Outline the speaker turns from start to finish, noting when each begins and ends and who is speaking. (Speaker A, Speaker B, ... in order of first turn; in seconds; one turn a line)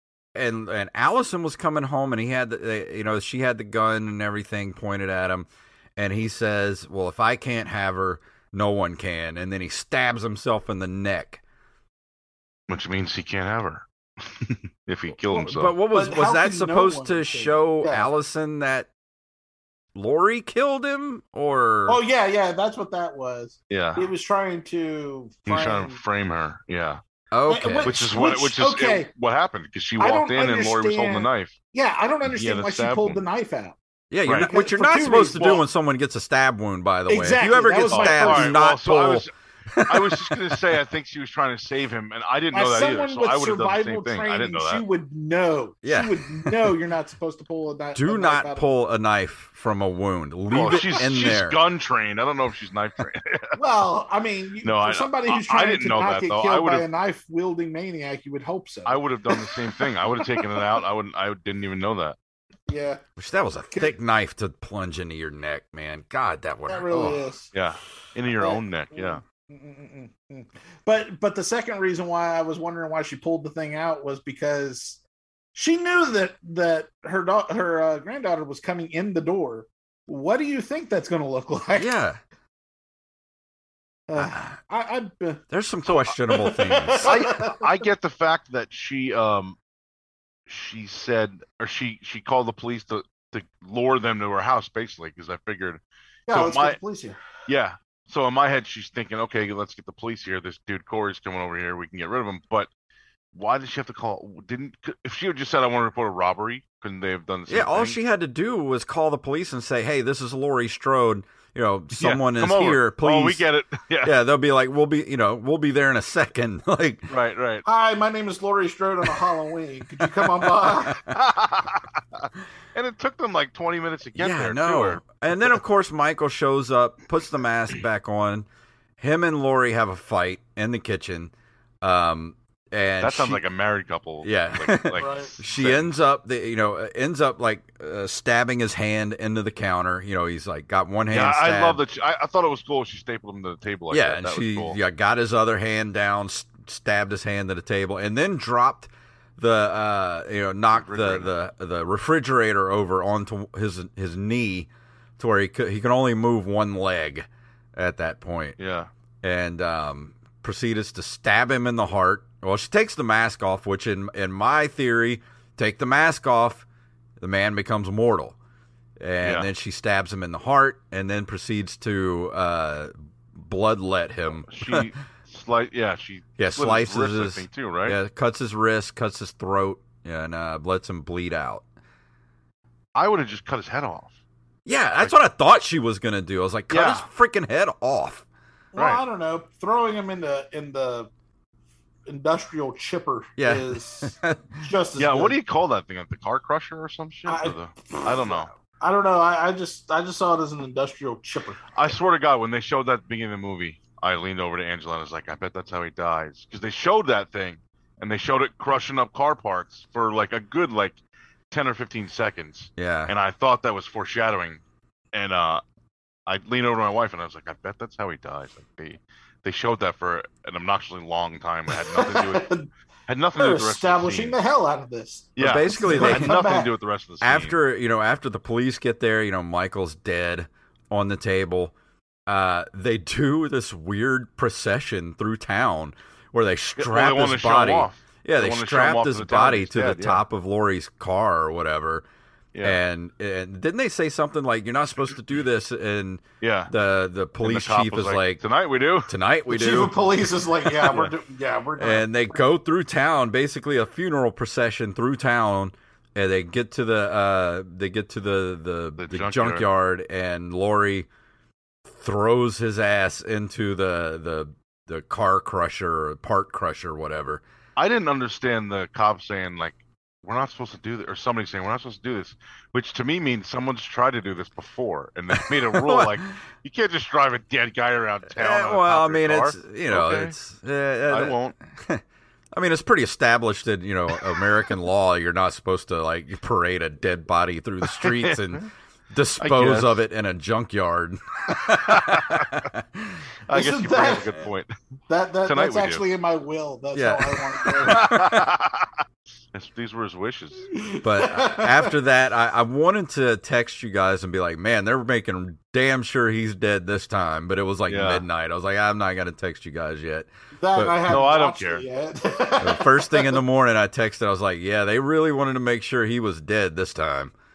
Speaker A: 0.3-11.4
Speaker B: 12.7-15.7
Speaker C: 15.3-18.1
Speaker A: 15.5-18.9
Speaker A: 19.9-22.0
Speaker C: 21.9-26.0
Speaker B: 23.7-24.1
Speaker B: 25.5-27.0
Speaker A: 27.3-27.9
Speaker C: 27.5-29.1
Speaker B: 27.8-31.6
Speaker C: 30.0-33.8
Speaker B: 32.2-33.2
Speaker A: 34.1-40.6
Speaker B: 34.2-34.5
Speaker C: 34.3-35.6
Speaker B: 35.4-35.6
Speaker C: 37.1-38.6
Speaker B: 37.9-39.3
Speaker B: 39.9-44.8
Speaker C: 42.5-48.6
Speaker A: 45.8-46.8
Speaker A: 48.0-51.6
Speaker B: 50.5-53.5
Speaker C: 50.6-51.0
Speaker C: 53.6-59.9
Speaker B: 54.6-56.9
Speaker B: 58.9-62.2
Speaker C: 60.4-60.7
Speaker C: 62.7-63.0
Speaker A: 63.2-67.2
Speaker C: 66.7-67.5
Speaker B: 67.5-69.2
Speaker C: 68.4-75.0
Speaker C: 75.5-81.9
Speaker A: 81.8-82.2
Speaker C: 84.1-87.7
Speaker A: 84.2-84.5
Speaker A: 85.5-87.1
Speaker B: 87.0-89.6
Speaker B: 90.5-96.8
Speaker C: 96.3-97.2
Speaker B: 97.5-102.7
Speaker B: 103.3-108.0
Speaker A: 107.5-113.5
Speaker B: 112.0-114.2
Speaker A: 114.0-117.1
Speaker B: 117.1-117.6
Speaker C: 117.7-121.0
Speaker A: 120.0-121.0
Speaker B: 121.1-125.0
Speaker A: 124.2-128.5
Speaker A: 129.0-133.4
Speaker B: 133.0-136.0
Speaker A: 134.2-141.8
Speaker C: 135.0-135.3
Speaker B: 141.1-144.8
Speaker A: 143.9-158.6
Speaker B: 150.7-151.3
Speaker B: 158.6-158.9
Speaker A: 159.2-166.7
Speaker A: 167.2-168.4
Speaker A: 169.0-174.9
Speaker B: 169.2-169.5
Speaker B: 174.5-178.0
Speaker A: 176.4-181.7
Speaker B: 183.0-184.2
Speaker A: 184.7-188.3
Speaker B: 186.7-187.1
Speaker C: 188.7-191.1
Speaker B: 188.8-189.0
Speaker C: 192.1-195.4
Speaker A: 193.4-194.7
Speaker B: 195.0-198.5
Speaker C: 197.3-201.6
Speaker B: 201.8-211.0
Speaker B: 211.5-214.6
Speaker A: 212.8-213.1
Speaker B: 215.1-215.6
Speaker B: 216.3-222.5
Speaker C: 221.9-222.7
Speaker B: 223.1-224.4
Speaker C: 223.4-226.7
Speaker B: 225.4-227.6
Speaker A: 225.4-226.4
Speaker A: 227.2-231.7
Speaker A: 232.3-242.1
Speaker B: 236.8-240.2
Speaker B: 242.5-242.8
Speaker A: 242.6-248.4
Speaker B: 246.4-246.7
Speaker B: 247.4-249.1
Speaker A: 249.1-250.0
Speaker C: 249.5-252.4
Speaker A: 251.8-261.1
Speaker B: 259.0-259.7
Speaker A: 261.9-267.4
Speaker B: 267.8-280.4
Speaker A: 275.5-276.2
Speaker A: 278.4-282.0
Speaker B: 281.1-281.6
Speaker A: 282.6-293.2
Speaker B: 287.9-288.6
Speaker B: 289.4-290.0
Speaker B: 291.9-292.6
Speaker B: 293.5-294.7
Speaker C: 293.5-294.3
Speaker C: 295.1-298.2
Speaker B: 295.4-296.0
Speaker A: 296.9-298.4
Speaker B: 297.9-298.9
Speaker B: 299.5-300.7
Speaker C: 300.8-301.9
Speaker A: 301.0-311.3
Speaker B: 307.9-308.2
Speaker C: 310.6-313.4
Speaker B: 311.1-311.9
Speaker A: 312.6-317.3